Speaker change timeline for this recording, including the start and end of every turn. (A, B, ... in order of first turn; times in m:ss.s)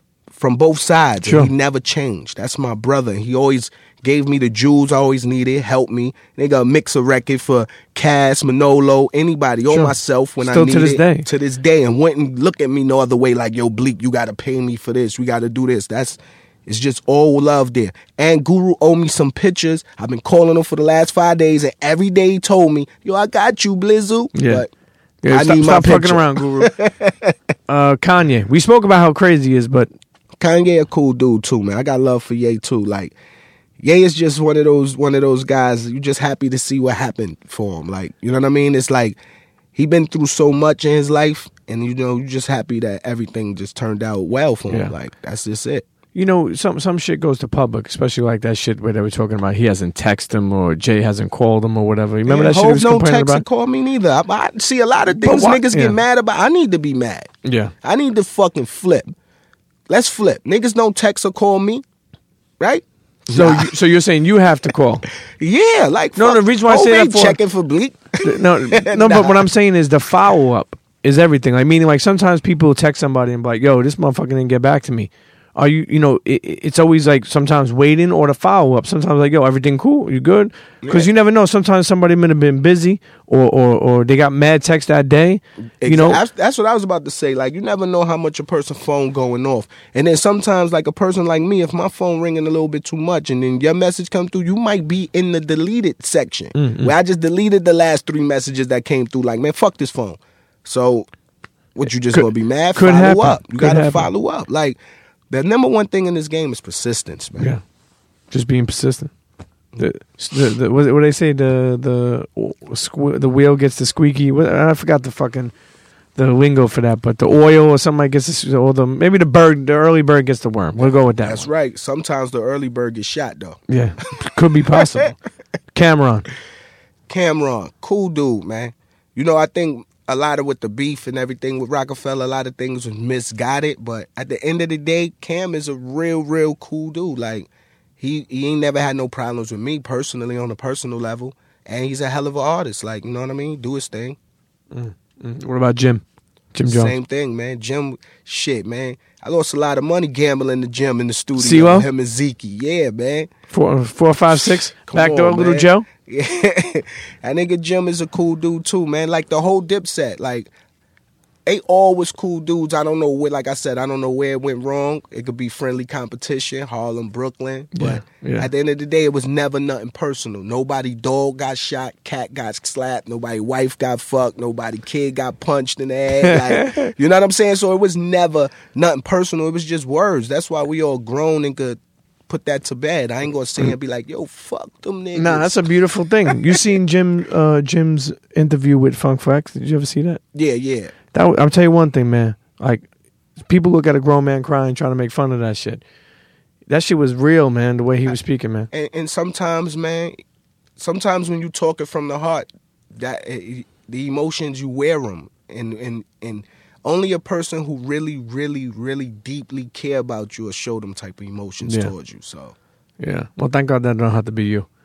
0:00.3-0:24.7 A
0:01.2-0:01.5 B
0:09.7-0:11.3 B
0:24.3-0:24.6 B
0:25.2-0:26.7 B
0:25.3-0:27.4 A
0:27.7-0:29.9 B
0:30.4-0:33.1 A
0:33.8-0:39.2 A
0:39.7-0:45.8 A
0:46.1-0:53.4 B
0:52.2-0:57.3 A
0:55.1-0:56.0 B
0:57.4-0:57.7 B
0:57.8-0:59.1 A
0:59.9-1:01.8 A
1:02.6-1:03.7 A
1:03.3-1:05.1 B
1:05.2-1:09.5 A
1:06.2-1:07.4 B
1:08.2-1:26.2 B
1:20.8-1:21.1 A
1:25.8-1:41.1 A
1:36.5-1:36.9 B
1:41.7-1:44.8 A
1:42.1-1:44.1 B
1:45.3-1:47.5 A
1:48.3-1:49.1 B
1:49.8-1:55.5 B
1:56.2-2:01.5 B
2:00.8-2:03.6 A
2:03.7-2:05.1 B
2:04.2-2:05.1 A
2:05.7-2:06.3 B
2:07.1-2:17.5 A
2:18.0-2:24.2 A
2:24.7-2:26.9 B
2:26.6-2:33.3 A
2:31.4-2:31.9 B
2:33.5-2:35.9 B
2:34.3-2:40.5 A
2:41.4-3:05.6 A
2:47.7-2:48.5 B
2:56.2-2:56.9 B
3:05.1-3:10.2 B
3:10.3-3:10.9 A
3:11.1-3:12.8 B
3:13.4-3:15.8 B
3:16.7-3:18.7 B
3:18.7-3:20.2 A
3:20.8-3:32.6 A
3:31.6-3:31.9 B
3:33.0-3:34.7 B